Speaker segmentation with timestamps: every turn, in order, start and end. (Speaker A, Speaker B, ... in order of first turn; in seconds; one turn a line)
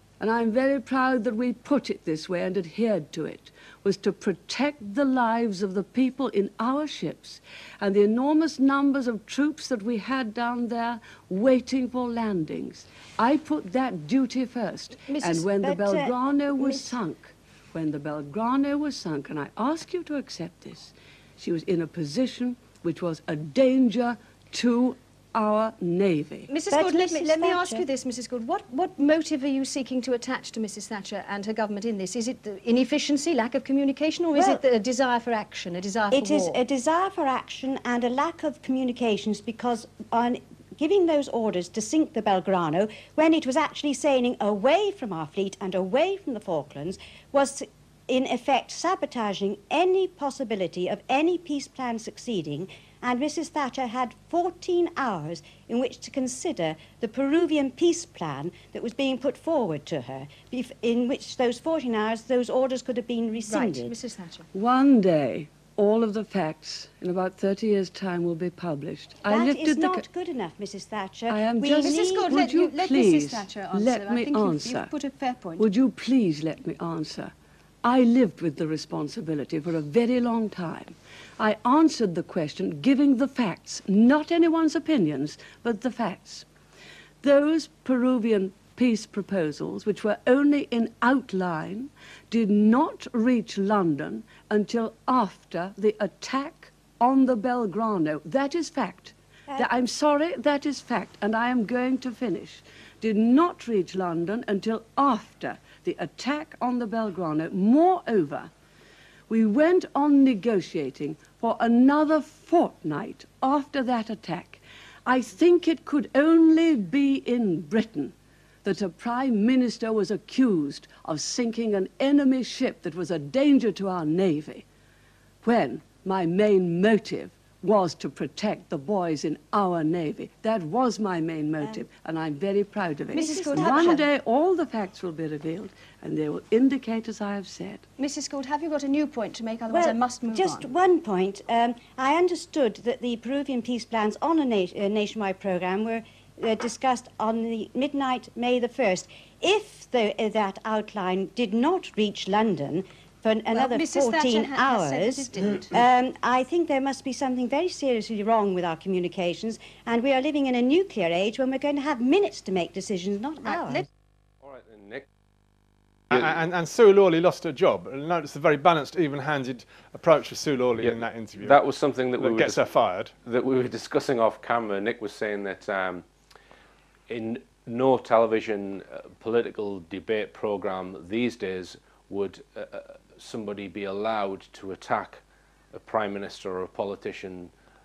Speaker A: 0.2-26.5
Speaker B: 15.1-15.4
Speaker C: 15.4-16.9
Speaker B: 26.5-36.6
Speaker C: 26.7-27.9
Speaker C: 34.3-34.6
Speaker C: 36.1-63.9
Speaker B: 63.5-64.5
Speaker A: 64.5-70.0
Speaker C: 69.3-72.4
Speaker A: 71.3-74.9
Speaker B: 71.8-75.7
Speaker A: 75.6-77.3
Speaker A: 77.8-86.5
Speaker A: 87.2-108.5
Speaker A: 109.3-124.6
Speaker A: 125.4-137.8
Speaker B: 133.1-134.0
Speaker C: 133.2-134.0
Speaker B: 138.0-140.7
Speaker C: 139.7-163.8
Speaker B: 153.5-155.7
Speaker B: 163.4-163.8
Speaker D: 164.4-165.1
Speaker E: 166.1-171.6
Speaker D: 170.8-172.6
Speaker E: 172.2-173.1
Speaker D: 173.2-176.1
Speaker D: 177.1-185.2
Speaker D: 185.7-187.5